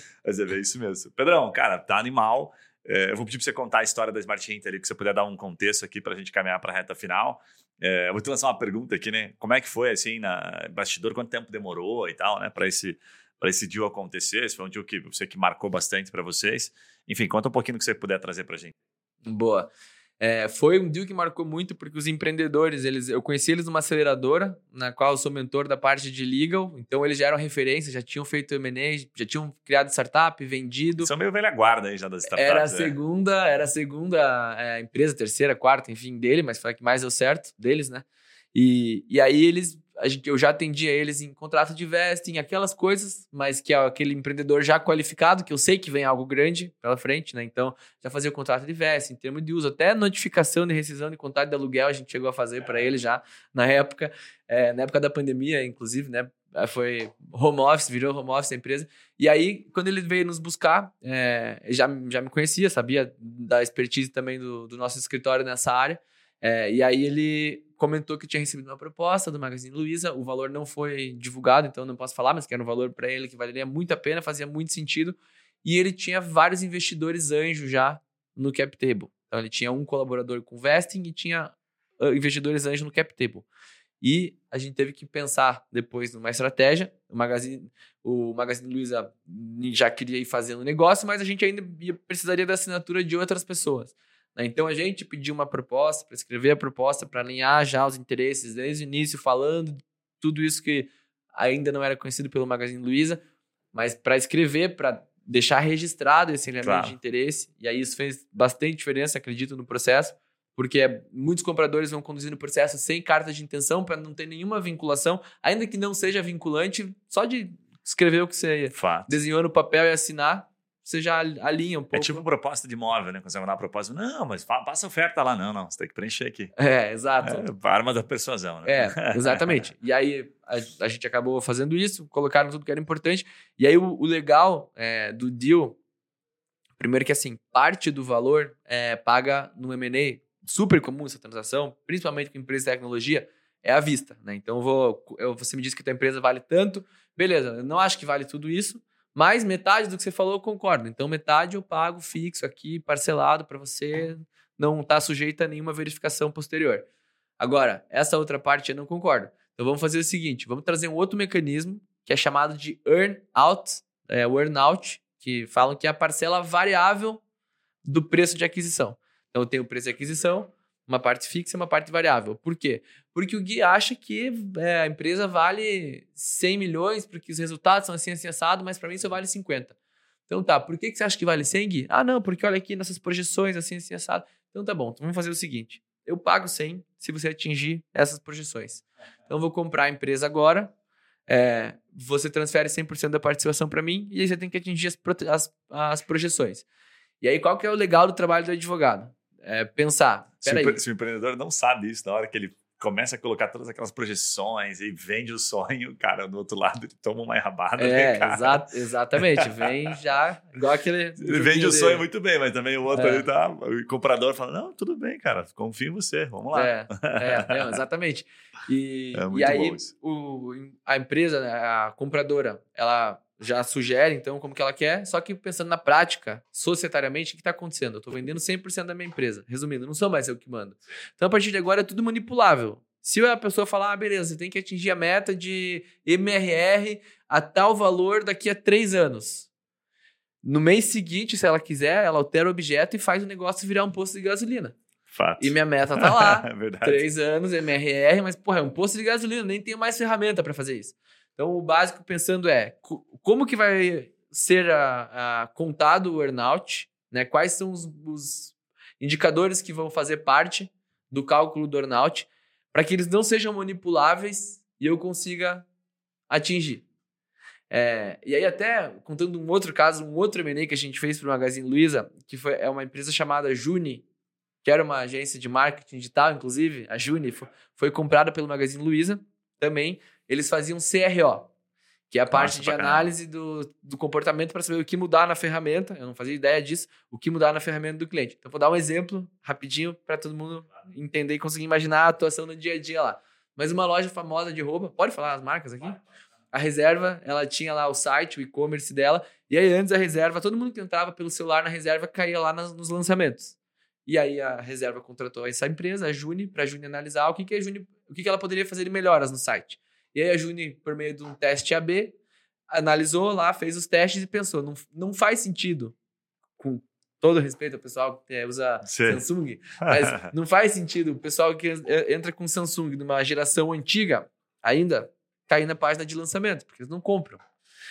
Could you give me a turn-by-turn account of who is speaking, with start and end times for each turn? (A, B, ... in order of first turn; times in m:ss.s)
0:00.2-0:18.7 A
0:19.2-0:31.1 B
0:31.0-0:33.0 A
0:32.3-1:23.4 B
1:24.0-1:43.2 B
1:43.7-2:02.2 B
1:46.6-1:47.0 A
1:58.7-1:59.1 A
2:01.9-2:06.5 A
2:06.6-2:07.4 B
2:07.2-2:09.7 A
2:08.6-2:15.8 B
2:16.8-2:36.8 B
2:37.4-2:47.2 B
2:47.8-2:59.7 B
3:00.3-3:10.7 B
3:11.3-3:16.6 B
3:17.2-3:20.8 B
3:20.4-3:29.7 A
3:27.8-3:32.0 B
3:31.2-3:37.8 A
3:32.9-3:33.3 B
3:36.5-3:59.5 B
3:39.1-3:39.9 A
4:00.4-4:04.8 B
4:05.1-4:07.0 A
4:05.4-4:25.6 B
4:26.3-4:26.8 B
4:27.7-4:34.0 B
4:34.6-4:41.5 B
4:42.1-4:56.0 B
4:42.3-4:43.0 A
4:56.5-5:03.5 B
5:04.0-5:12.1 B
5:12.7-5:15.9 B
5:16.6-5:27.4 B
5:18.8-5:19.2 A
5:19.9-5:20.3 A